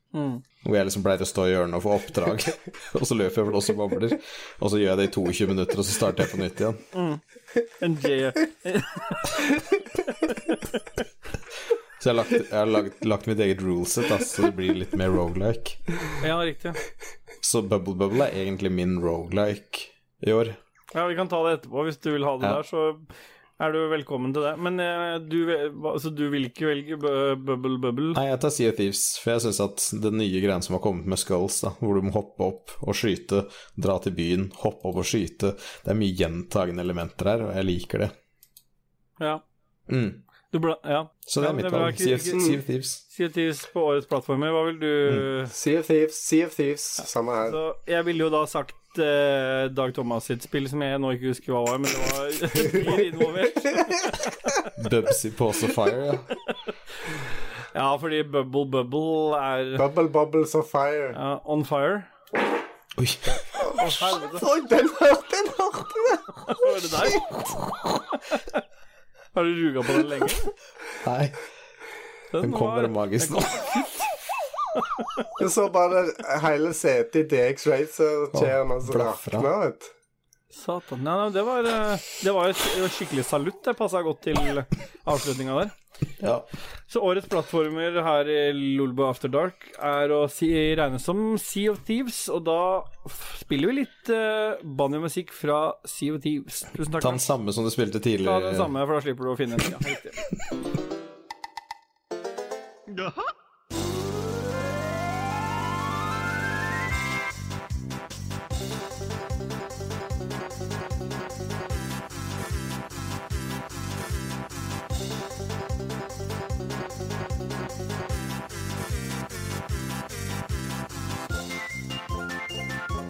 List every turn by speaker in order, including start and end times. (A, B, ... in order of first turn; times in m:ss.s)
0:00.1-0:00.4 A
0:00.6-0:06.8 B
0:06.9-0:10.8 A
0:12.0-0:15.9 B
0:16.2-0:16.8 A
0:17.4-0:20.6 B
0:20.9-0:28.2 A
0:28.1-0:38.1 B
0:39.9-0:40.2 B
0:40.5-0:42.6 A
0:41.3-0:43.0 B
0:43.1-0:45.5 A
0:45.5-0:47.6 C
0:47.4-0:54.7 A
0:54.8-0:56.3 B
0:57.7-0:59.8 A
0:59.8-1:01.2 C
1:01.1-1:02.1 A
1:03.0-1:04.0 B
1:03.7-1:04.5 A
1:04.2-1:06.4 C
1:06.5-1:07.3 A
1:07.0-1:08.1 B
1:08.3-1:08.6 A
1:09.3-1:10.5 A
1:11.0-1:11.4 B
1:12.3-1:14.1 A
1:12.4-1:13.7 B
1:15.4-1:19.9 C
1:18.3-1:19.5 B
1:20.6-1:25.7 A
1:26.2-1:26.5 B
1:26.9-1:37.2 A
1:37.0-1:38.7 B
1:38.2-1:40.2 A
1:42.9-1:43.3 A